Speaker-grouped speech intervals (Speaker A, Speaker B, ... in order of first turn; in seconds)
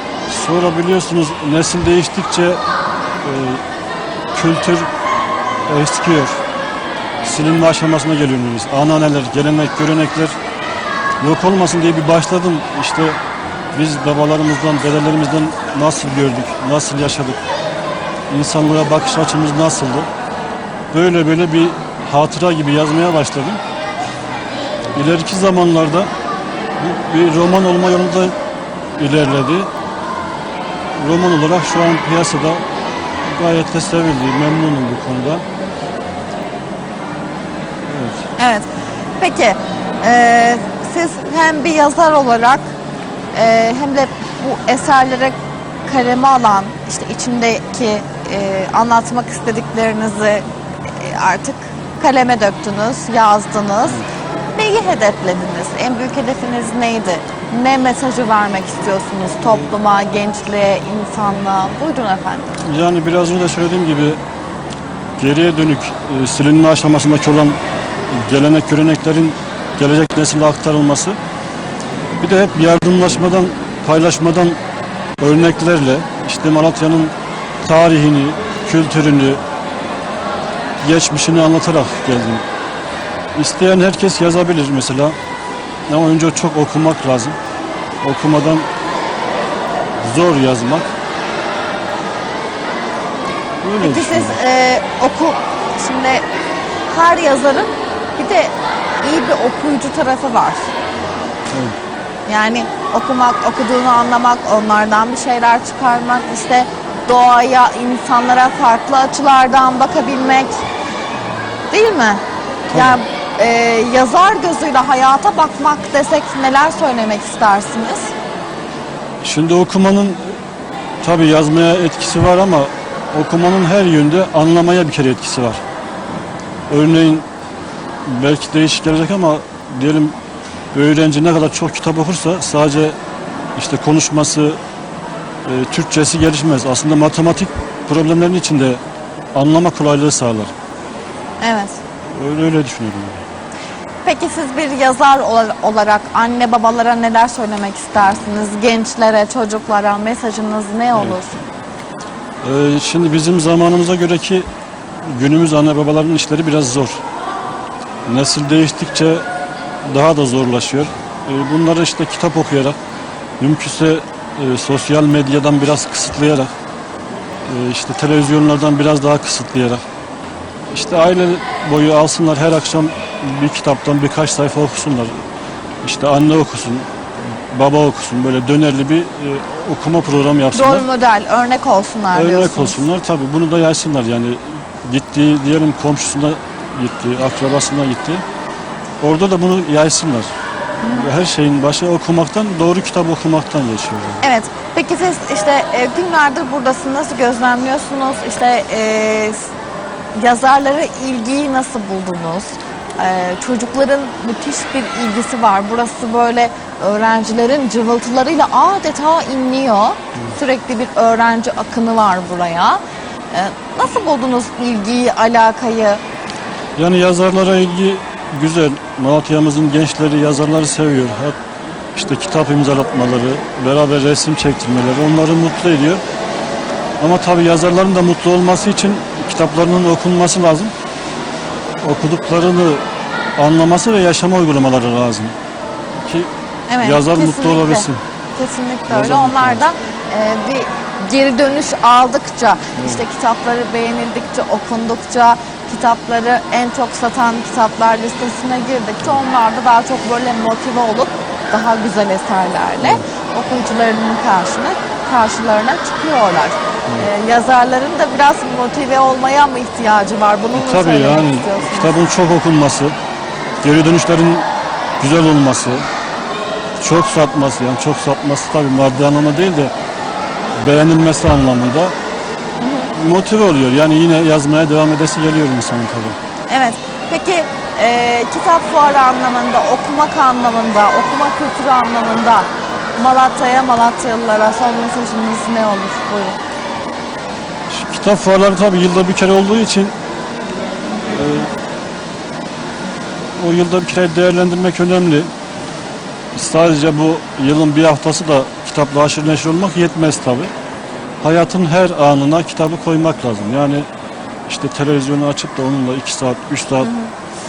Speaker A: 0.3-2.6, 3.2-3.6, 4.3-4.9, 5.7-6.4, 7.2-10.4, 11.2-13.2, 13.8-17.4, 18.3-20.1, 20.9-23.6, 24.9-26.1, 26.8-28.4, 29.0-29.7, 31.0-32.6, 33.3-35.5, 37.9-38.3, 62.6-64.2, 65.2-67.6, 68.1-71.2, 72.2-74.6, 75.2-79.4, 80.8-82.5, 83.3-85.2, 85.9-87.4, 88.0-88.7, 90.0-90.9, 93.6-94.4, 101.5-101.8, 112.7-113.0, 119.2-120.3, 121.0-125.6, 126.7-127.3, 128.1-130.2, 130.7-133.0, 133.6-134.6, 135.4-138.8, 139.3-140.5, 142.1-143.2, 152.4-154.5, 155.0-157.0, 158.1-159.2, 159.8-162.8, 163.4-166.5, 167.5-169.8, 170.7-175.1, 175.8-180.9, 182.1-188.2, 189.0-190.3, 190.9-194.2, 216.8-221.4, 221.9-226.0, 227.0-230.7, 231.8-232.8, 233.4-235.3, 236.0-238.0, 238.9-239.6, 242.8-243.0, 260.5-262.9, 263.6-264.5, 265.0-265.9, 266.8-269.7, 270.6-271.9, 272.9-276.2, 287.7-289.9, 291.1-291.5, 293.4-295.3, 296.4-300.5, 301.2-303.9, 304.5-306.9
Speaker B: 38.4-38.7, 39.2-42.6, 43.3-54.0, 54.5-62.5, 93.8-96.2, 96.9-100.7, 102.3-110.6, 111.7-118.1, 141.4-141.8, 144.1-151.4, 180.5-182.8, 190.8-191.1, 194.2-199.5, 200.2-212.8, 213.3-216.0, 236.7-262.0, 272.6-272.9, 276.5-286.4, 306.8-307.1